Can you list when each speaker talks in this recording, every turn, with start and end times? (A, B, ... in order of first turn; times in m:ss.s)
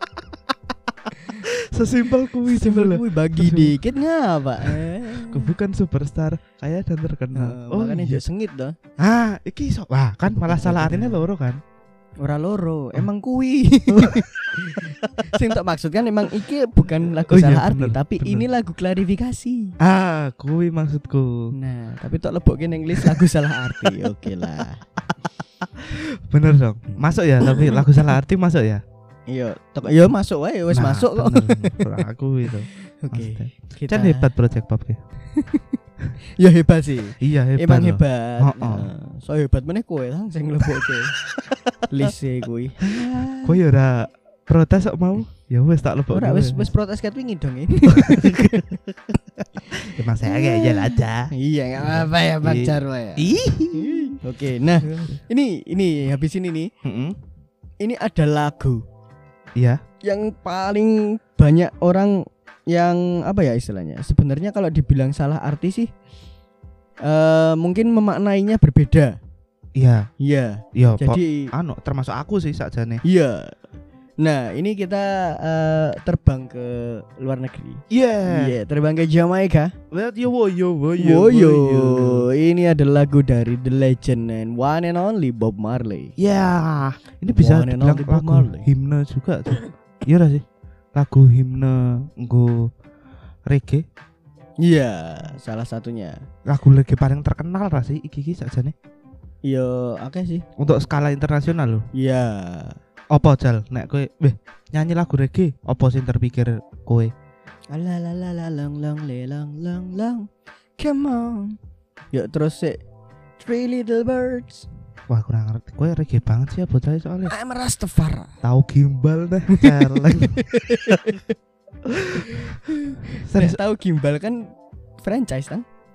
0:01.0-0:03.8 A
0:02.4-0:05.5 B
0:04.6-0:08.2 A
0:07.3-0:08.7 B
0:09.0-0:11.6 A
0:10.4-0:11.2 B
0:12.2-0:19.7 B
0:13.9-0:15.4 A
0:17.1-0:18.4 A
0:19.8-0:21.5 A
0:21.5-0:24.8 B
0:25.6-0:28.8 A
0:27.5-0:27.8 B
0:29.3-0:31.9 B
0:30.7-0:35.0 A
0:33.0-0:34.3 B
0:35.3-0:35.8 B
0:36.3-0:41.2 B
0:37.2-0:38.9 A
0:41.9-0:43.6 B
0:42.9-0:46.7 A
0:46.1-0:48.8 B
0:47.9-0:54.2 A
0:50.2-0:56.7 B
0:54.8-0:55.2 A
0:56.8-0:57.2 A
0:57.8-0:58.8 B
1:00.0-1:05.9 B
1:07.0-1:09.2 B
1:09.8-1:10.1 A
1:10.2-1:11.5 B
1:10.7-1:13.0 A
1:13.0-1:13.6 B
1:14.2-1:19.7 B
1:17.9-1:18.5 A
1:19.9-1:22.3 A
1:21.0-1:26.1 B
1:26.2-1:32.7 A
1:27.3-1:28.7 B
1:33.5-1:33.8 A
1:34.6-1:36.2 B
1:36.5-1:38.7 A
1:39.4-1:40.4 B
1:40.6-1:41.8 A
1:41.9-1:42.8 B
1:43.1-1:47.1 A
1:47.7-1:50.3 B
1:50.8-1:51.6 B
1:52.1-1:52.8 B
1:53.4-1:54.7 B
1:55.1-1:57.3 A
1:57.3-1:58.3 B
1:58.4-2:01.0 A
1:59.5-2:01.4 B
2:01.8-2:02.6 A
2:02.1-2:04.5 B
2:03.1-2:03.6 A
2:05.0-2:05.6 B